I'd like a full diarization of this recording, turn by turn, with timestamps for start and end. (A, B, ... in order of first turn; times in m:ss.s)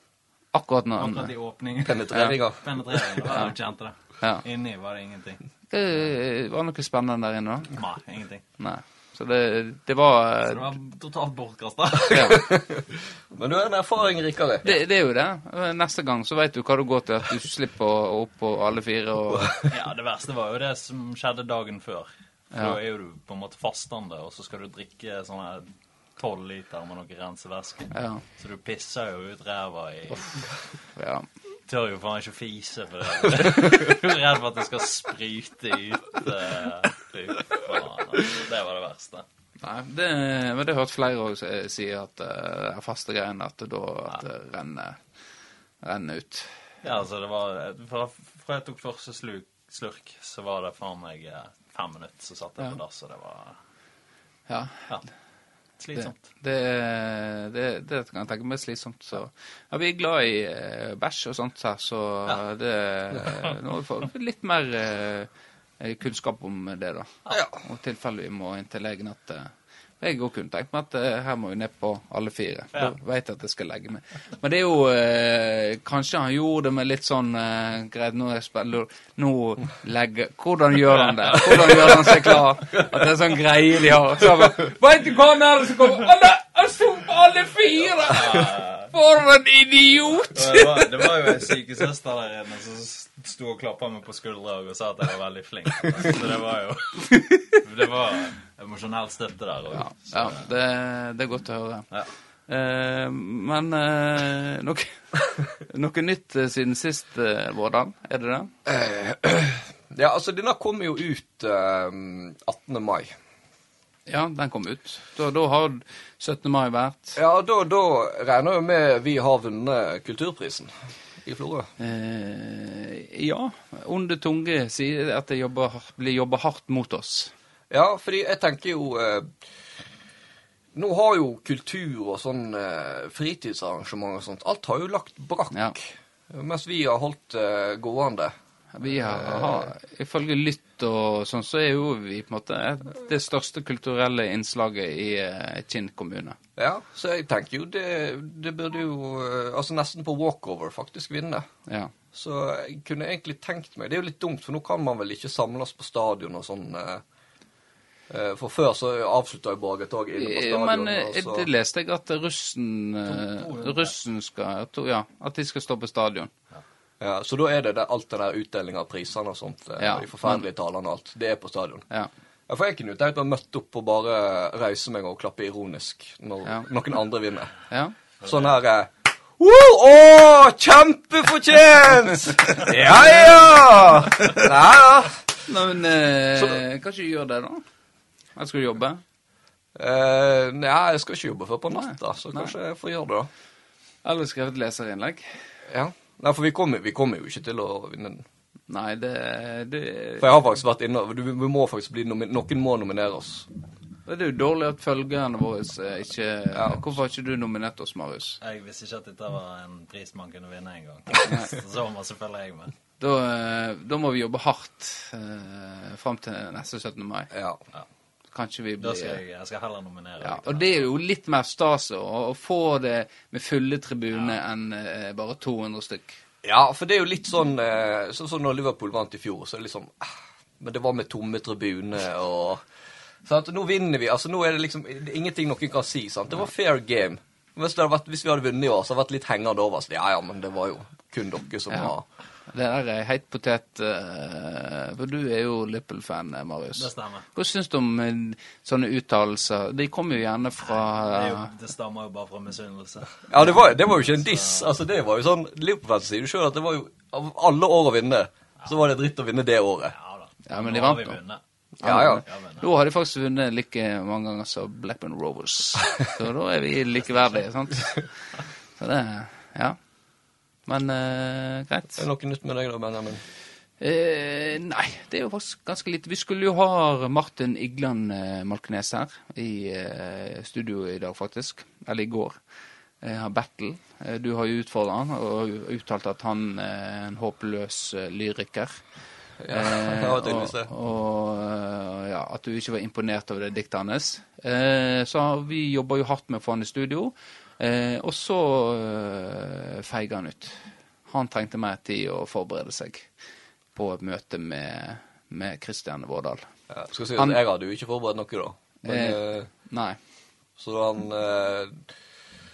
0:00.5-0:01.3 A
0:01.0-0:05.4 B
0:01.8-0:03.3 C
0:05.7-0:07.7 A
0:07.7-0:08.4 B
0:08.6-0:10.7 A
0:10.4-0:12.5 B
0:12.1-0:12.4 A
0:12.1-0:14.7 C
0:14.6-0:19.5 A
0:19.3-0:19.6 C
0:19.7-0:30.5 B
0:27.9-0:28.2 A
0:31.0-0:31.3 A
0:31.7-0:39.2 B
0:39.6-0:45.0 A
0:45.8-0:46.5 A
0:46.8-0:53.6 B
0:54.5-0:54.8 A
0:55.8-0:56.2 B
0:56.0-1:05.3 A
1:05.8-1:31.1 A
1:07.3-1:07.6 C
1:21.2-1:21.9 B
1:28.0-1:28.9 B
1:30.3-1:40.5 B
1:39.7-1:41.9 A
1:42.5-1:48.5 A
1:48.6-1:53.1 C
1:54.1-1:57.2 A
1:57.2-2:00.7 C
2:01.2-2:01.7 C
2:01.8-2:07.3 A
2:07.7-2:09.3 C
2:10.7-2:18.3 C
2:18.7-2:26.4 A
2:19.0-2:19.7 C
2:26.6-2:31.4 C
2:31.7-2:31.9 A
2:32.1-2:37.0 C
2:38.1-2:41.5 C
2:40.2-2:46.3 A
2:43.1-2:43.9 B
2:47.0-2:51.8 C
2:49.8-2:50.4 A
2:52.5-2:57.5 C
2:57.7-2:57.9 A
2:58.2-3:05.2 C
3:05.5-3:07.6 A
3:08.4-3:09.0 A
3:09.8-3:13.3 C
3:11.7-3:12.5 A
3:14.0-3:15.4 A
3:15.7-3:18.2 C
3:18.7-3:20.3 A
3:20.2-3:23.5 C
3:24.0-3:28.4 A
3:26.5-3:26.8 C
3:28.4-3:32.7 B
3:31.2-3:31.5 A
3:33.0-3:37.3 A
3:37.3-3:37.6 C
3:38.3-3:39.2 A
3:38.8-3:40.9 B
3:40.2-3:46.2 A
3:44.1-3:44.4 B
3:46.4-3:52.6 C
3:53.2-4:02.0 C
4:02.5-4:11.5 A
4:06.8-4:07.3 B
4:10.8-4:13.2 B
4:13.3-4:19.9 C
4:14.1-4:14.7 B
4:20.0-4:21.4 B
4:20.5-4:21.2 A
4:21.8-4:22.2 C
4:21.8-4:28.1 A
4:22.2-4:22.7 B
4:28.8-4:29.8 A
4:30.7-4:32.0 A
4:32.0-4:33.2 C
4:33.8-4:42.4 A
4:43.0-4:48.8 A
4:49.4-4:50.7 C
4:49.5-5:00.6 A
5:01.1-5:03.1 A
5:03.7-5:06.4 A
5:06.7-5:09.5 C
5:08.8-5:10.0 A
5:10.6-5:11.9 C